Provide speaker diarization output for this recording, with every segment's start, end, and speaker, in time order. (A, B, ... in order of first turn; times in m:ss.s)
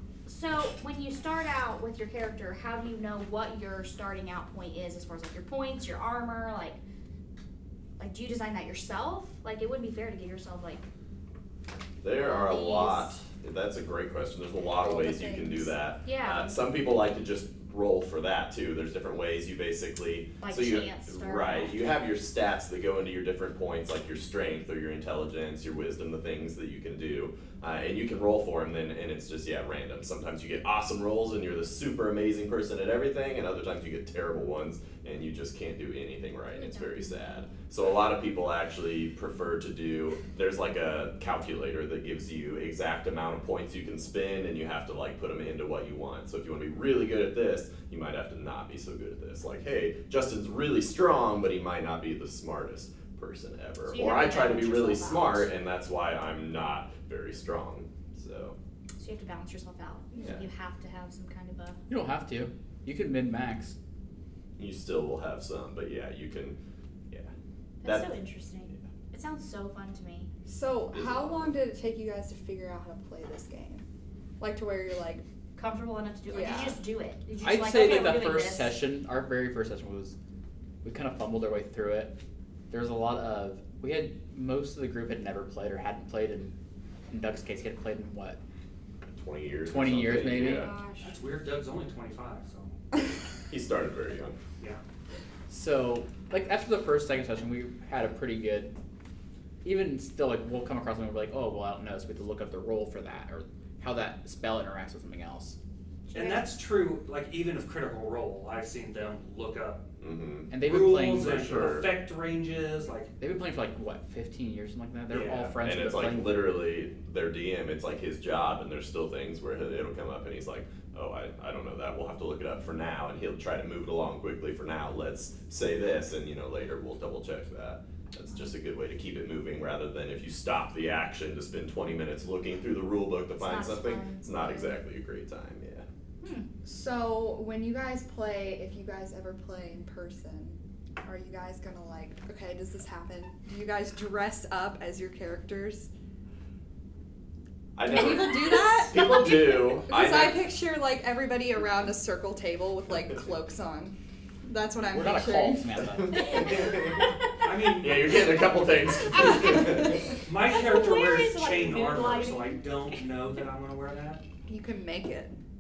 0:00.3-0:06.8 A
0:08.0-0:10.9 A
0:12.0-0:58.6 B
0:12.1-0:13.2 A
0:14.8-0:15.8 C
0:16.0-0:16.6 A
0:20.4-0:21.8 A
0:36.6-0:37.5 A
0:53.9-0:55.5 A
0:59.0-1:01.8 A
1:01.9-1:03.8 D
1:04.6-1:06.6 B
1:07.8-1:10.3 A
1:07.8-1:08.2 B
1:10.4-1:13.8 C
1:10.9-1:11.6 B
1:14.4-1:15.2 C
1:15.6-1:18.8 A
1:16.3-1:16.8 C
1:17.4-1:20.2 D
1:20.8-1:22.2 D
1:22.7-1:26.6 D
1:27.1-1:28.4 D
1:29.1-1:30.7 B
1:29.6-1:30.7 D
1:30.4-1:31.1 A
1:31.0-1:32.7 E
1:33.5-1:34.4 B
1:35.5-1:38.8 D
1:39.6-1:45.6 D
1:46.1-1:49.8 E
1:50.0-1:50.5 B
1:50.5-1:51.8 D
1:50.6-1:53.1 E
1:51.3-1:51.9 B
1:53.2-1:56.5 D
1:55.1-1:55.6 E
1:55.6-2:15.9 B
2:13.4-2:14.8 A
2:16.2-2:16.5 A
2:16.6-2:25.9 C
2:27.8-2:30.5 B
2:27.8-2:35.7 C
2:34.9-2:36.3 D
2:35.8-2:37.1 B
2:36.1-2:37.6 A
2:37.4-2:38.4 E
2:37.8-2:40.1 B
2:39.0-2:43.1 A
2:40.2-2:44.2 E
2:44.5-2:45.4 C